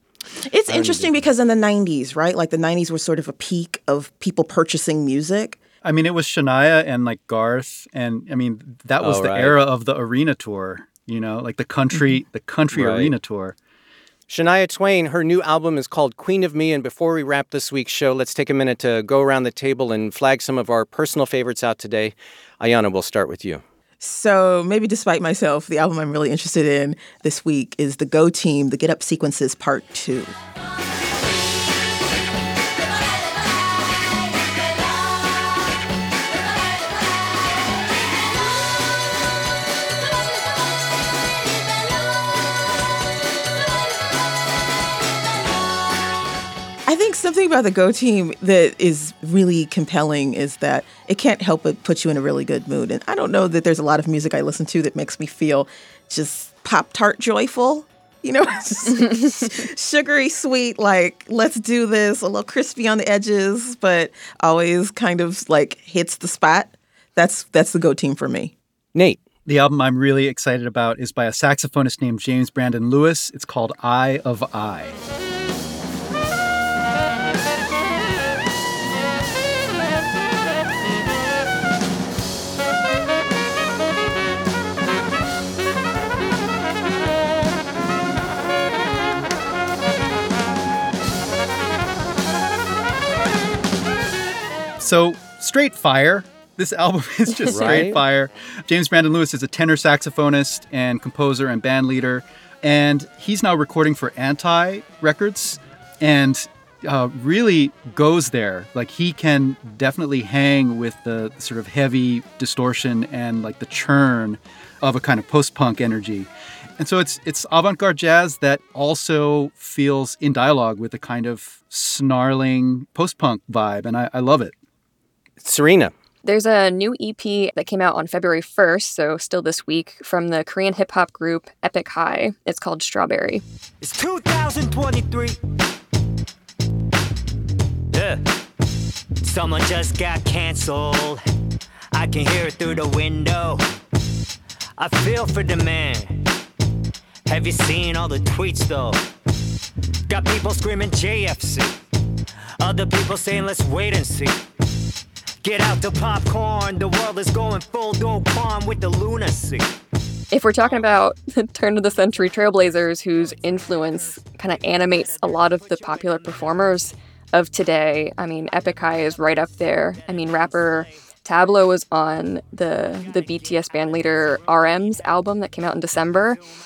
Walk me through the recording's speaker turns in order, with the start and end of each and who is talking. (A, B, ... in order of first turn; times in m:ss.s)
0:00.4-0:05.6 A
0:00.7-0:01.2 B
0:05.8-0:13.6 C
0:09.0-0:09.6 B
0:12.7-0:13.1 B
0:14.3-0:23.6 B
0:24.0-0:30.3 A
0:46.8-1:08.5 A
1:08.9-1:09.2 B
1:09.4-1:15.0 C
1:34.8-2:04.5 C
1:37.5-1:38.0 B
2:05.4-2:05.9 B
2:06.2-2:13.4 D
2:13.8-2:15.4 E
2:17.9-2:18.2 E
2:19.2-2:21.2 E
2:21.9-2:23.6 E
2:24.8-2:26.2 E
2:27.3-2:29.0 E
2:30.1-2:31.8 E
2:32.6-2:34.4 E
2:35.4-2:39.7 E
2:40.3-2:56.4 D